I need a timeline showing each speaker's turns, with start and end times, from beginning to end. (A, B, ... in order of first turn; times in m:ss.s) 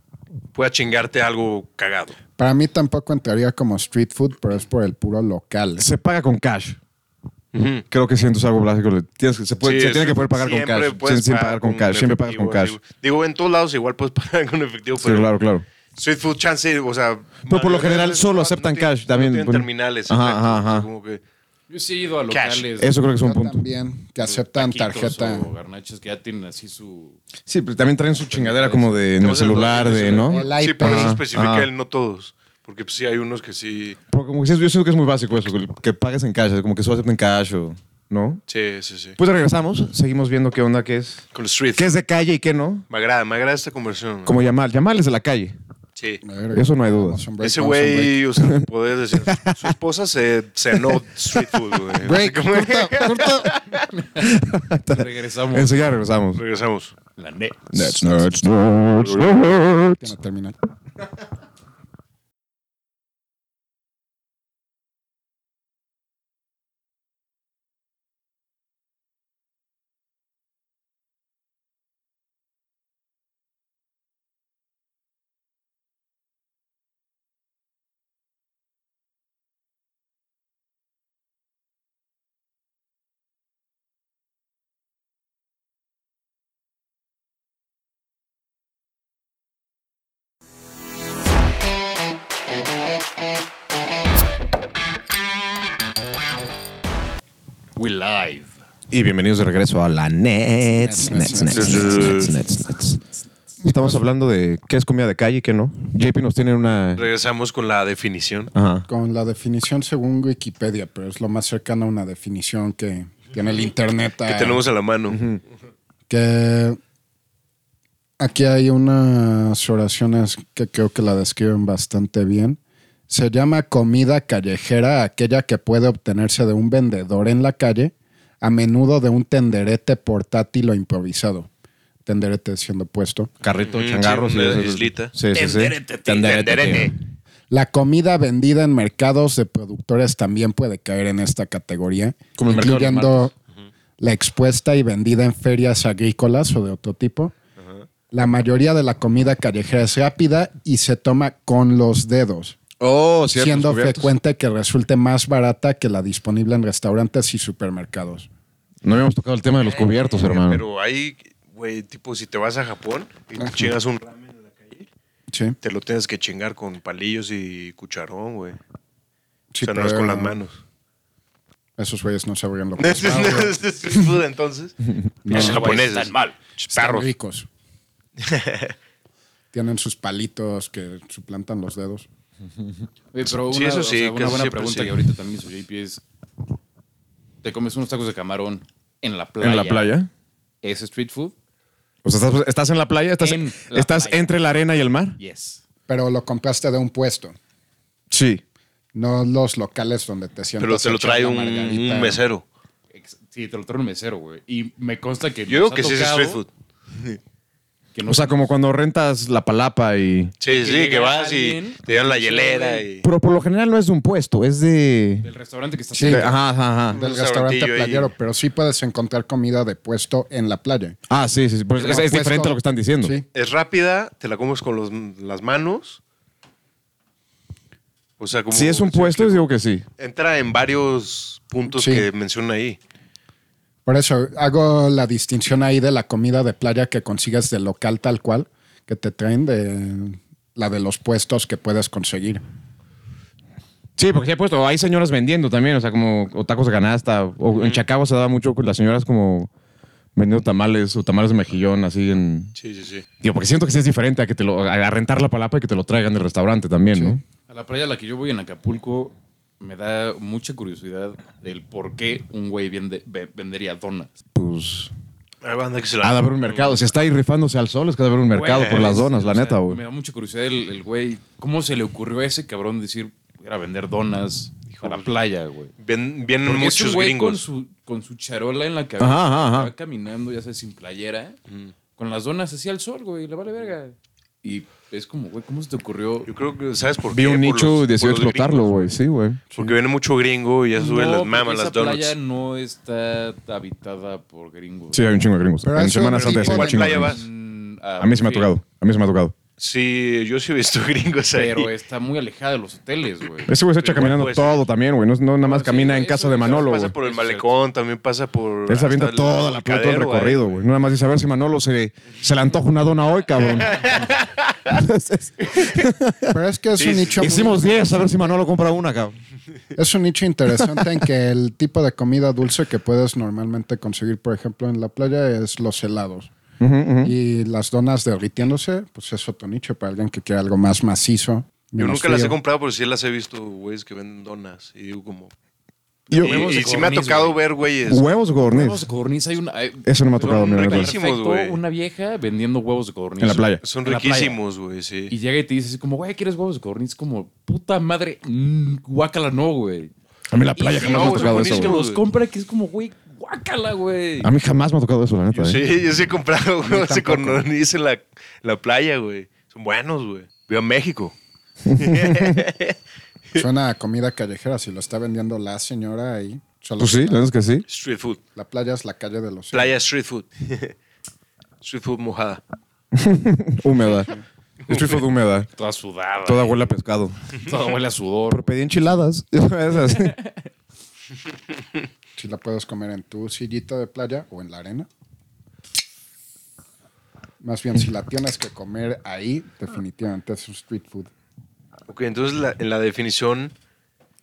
0:00.5-0:02.2 A
0:02.4-0:05.8 B
0:05.8-0:06.8 C
0:07.5-0:07.8 A
0:07.9-0:12.8 C
0:09.6-0:15.3 A
0:15.0-0:15.6 C
0:16.0-0:21.2 A
0:17.4-0:20.9 C
0:21.7-0:23.0 D
0:22.3-0:22.7 A
0:22.8-0:23.6 C
0:23.2-0:25.5 B
0:24.2-0:27.2 D
0:27.4-0:31.7 C
0:28.2-0:30.2 D
0:29.2-0:34.0 A
0:30.2-0:31.2 B
0:34.1-0:38.4 C
0:38.5-0:39.2 A
0:39.2-0:41.2 C
0:41.3-0:41.9 A
0:41.8-0:42.8 C
0:42.9-0:44.4 A
0:44.2-0:45.6 C
0:46.0-0:46.2 A
0:46.2-0:48.2 B
0:46.5-0:47.2 C
0:47.4-0:53.4 A
0:49.2-0:49.7 C
0:52.0-0:53.6 B
0:53.2-0:56.4 C
0:53.9-0:54.3 D
0:54.8-0:55.8 D
0:56.3-0:56.9 A
0:57.2-0:58.2 D
0:57.7-1:00.1 C
0:59.0-0:59.4 A
0:59.9-1:00.6 B
1:37.8-1:38.5 D
1:38.9-1:43.0 C
1:40.8-1:42.2 B
1:41.5-1:42.4 A
1:43.6-1:47.1 C
1:43.6-1:44.0 B
1:47.0-1:48.5 A
1:48.5-1:48.9 C
1:48.9-1:54.6 B
1:54.2-1:55.2 A
1:55.1-1:55.4 C
1:56.1-1:56.8 B
1:58.2-2:11.5 B
2:12.0-2:13.3 B
2:13.4-2:16.9 C
2:13.6-2:15.1 A
2:15.3-2:16.9 D
2:16.2-2:16.7 A
2:17.5-2:23.3 B
2:22.4-2:23.3 C
2:24.0-2:27.3 B
2:27.6-2:27.8 A
2:28.1-2:32.6 B
2:32.8-2:34.1 C
2:33.3-2:38.3 B
2:38.8-2:40.6 C
2:39.7-2:44.8 A
2:43.4-2:43.7 B
2:45.3-2:45.6 B
2:45.6-2:48.6 A
2:49.5-2:50.4 B
2:49.6-2:50.6 A
2:51.8-2:54.1 B
2:52.8-2:56.1 A
2:55.2-2:55.8 B
2:55.3-2:56.4 D
2:56.6-2:57.5 B
2:56.7-2:57.1 A
2:58.2-2:58.7 A
2:59.5-3:02.1 B
3:03.1-3:06.0 D
3:03.5-3:05.0 A
3:07.4-3:09.9 D
3:09.4-3:10.1 C
3:10.6-3:11.3 D
3:12.0-3:15.2 C
3:13.2-3:14.3 D
3:15.2-3:15.6 D
3:15.9-3:17.4 B
3:18.1-3:18.4 C
3:18.9-3:22.2 B
3:20.6-3:22.4 A
3:22.9-3:26.4 D
3:25.5-3:27.2 A
3:27.9-3:28.5 D
3:28.0-3:30.3 C
3:30.4-3:33.1 A
3:30.5-3:32.8 D
3:33.0-3:35.2 C
3:35.2-3:36.4 D
3:35.9-3:36.3 B
3:36.0-3:37.0 C
3:36.9-3:41.0 B
3:36.9-3:38.1 A
3:41.1-3:43.1 C
3:41.8-3:43.2 B
3:43.3-3:46.0 A
3:48.2-3:49.5 A
3:48.5-3:49.8 C
3:50.0-3:52.8 A
3:51.7-3:52.1 B
3:53.8-4:02.4 B
4:04.0-4:09.5 C
4:07.5-4:07.8 A
4:10.2-4:12.5 C
4:12.6-4:13.0 A
4:13.2-4:17.2 C
4:16.9-4:17.2 B
4:17.5-4:24.1 D
4:24.3-4:24.9 C
4:25.4-4:26.7 A
4:26.0-4:29.8 C
4:28.3-4:35.7 D
4:28.6-4:28.9 A
4:35.8-4:37.4 A
4:36.4-4:41.4 D
4:39.0-4:39.7 C
4:42.0-4:46.3 D
4:46.3-4:49.0 A
4:47.1-4:49.4 C
4:49.5-4:52.1 A
4:50.8-4:55.1 D
4:54.9-4:57.2 C
4:55.6-4:57.2 B
4:56.1-4:57.2 A
4:56.6-4:58.5 D
4:58.0-4:59.3 C
4:59.6-5:01.7 A
5:01.3-5:03.5 D
5:03.5-5:06.9 C
5:03.8-5:04.7 A
5:05.4-5:07.6 D
5:06.3-5:10.6 A
5:08.7-5:16.3 C
5:13.6-5:14.3 A
5:16.3-5:17.6 B
5:16.8-5:17.6 A
5:17.2-5:19.2 C
5:19.7-5:26.3 B
5:26.6-5:27.1 C
5:27.0-5:32.4 B
5:31.8-5:35.3 A
5:36.1-5:36.5 C
5:36.1-5:37.4 D
5:36.2-5:38.0 A
5:37.9-5:38.8 C
5:38.4-5:44.4 D
5:39.8-5:40.9 C
5:40.2-5:41.6 A
5:43.2-5:43.6 C
5:43.6-5:45.1 A
5:45.1-5:49.9 D
5:50.3-5:51.8 C
5:50.6-5:54.3 D
5:50.7-5:52.0 A
5:54.2-5:55.6 C
5:55.3-6:01.1 A
5:56.6-5:57.4 D
6:01.6-6:02.4 C
6:01.7-6:02.7 A
6:03.4-6:07.3 B
6:06.8-6:07.6 C
6:07.7-6:08.2 A
6:08.3-6:09.8 B
6:09.5-6:10.7 A
6:11.6-6:12.4 A
6:12.9-6:14.1 C
6:14.7-6:15.0 A
6:14.7-6:15.5 C
6:15.6-6:16.7 D
6:16.2-6:17.2 C
6:17.3-6:18.5 D
6:18.3-6:20.2 C
6:19.9-6:20.3 D
6:22.2-6:24.9 B
6:27.4-6:31.1 B
6:31.9-6:33.5 A